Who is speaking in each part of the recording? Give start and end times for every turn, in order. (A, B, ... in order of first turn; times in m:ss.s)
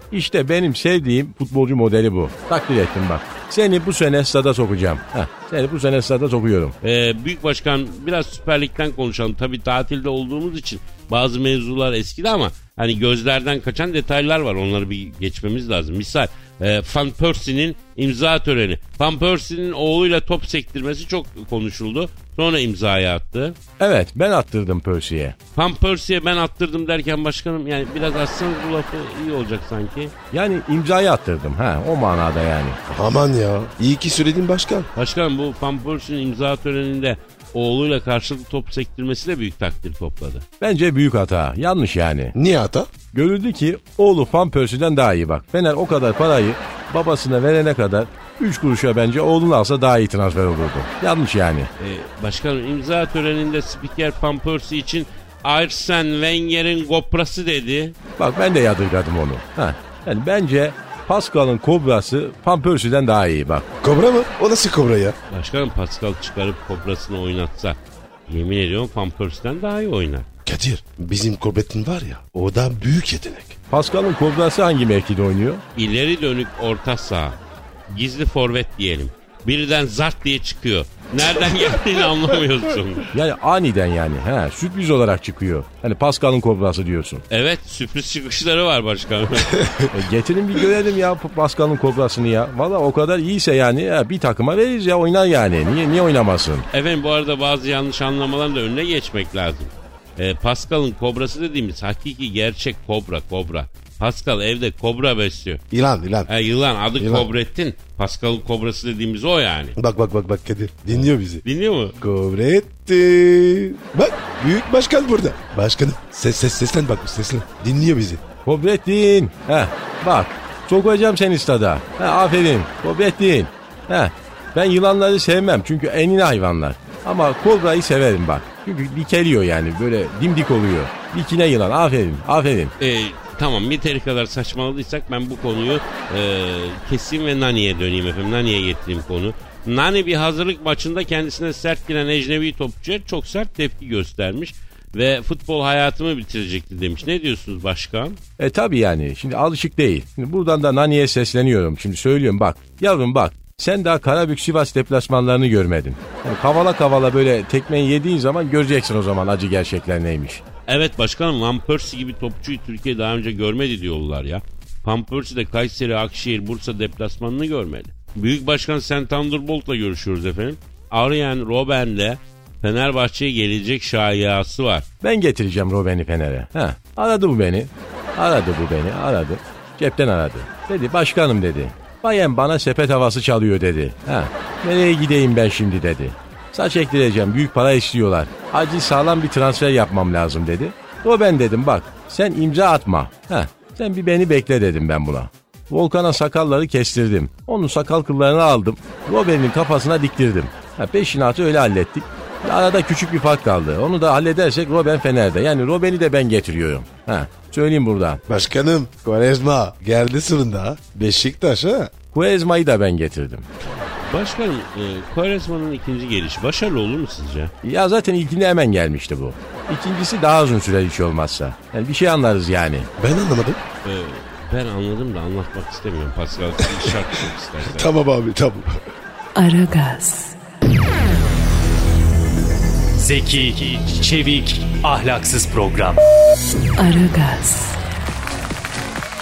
0:00.4-0:06.7 A
0:06.8-0:23.6 B
0:23.8-0:25.3 A
0:25.6-0:30.1 B
0:30.3-0:32.8 A
0:32.9-0:34.9 C
0:35.0-0:40.5 B
0:40.6-0:42.3 A
0:42.4-0:42.9 C
0:43.1-0:46.5 A
0:47.2-0:48.0 A
0:48.6-0:51.7 A
0:51.8-0:58.0 B
0:58.2-1:03.6 A
1:03.8-1:05.2 C
1:05.3-1:10.3 B
1:10.5-1:13.6 C
1:13.7-1:15.6 A
1:15.8-1:17.4 B
1:17.9-1:23.1 B
1:23.1-1:27.2 A
1:27.3-1:29.5 B
1:29.6-1:30.0 C
1:29.9-1:36.5 A
1:36.7-1:45.6 B
1:45.7-1:46.3 C
1:46.3-1:49.8 B
1:47.0-1:47.3 C
1:49.8-1:51.4 C
1:50.9-1:52.0 B
1:52.0-1:58.2 C
1:58.5-2:03.4 A
2:04.6-2:12.7 A
2:12.8-2:28.2 B
2:28.5-2:37.3 A
2:38.6-2:40.4 A
2:40.7-2:54.9 B
2:55.0-2:57.6 A
2:58.2-3:28.2 A
3:28.3-3:31.9 C
3:32.1-3:33.4 A
3:34.0-3:37.5 B
3:37.6-3:42.9 A
3:43.0-3:43.6 C
3:43.8-3:47.9 B
3:47.7-3:48.8 C
3:49.4-3:50.4 D
3:53.0-3:56.0 E
3:56.8-3:57.8 D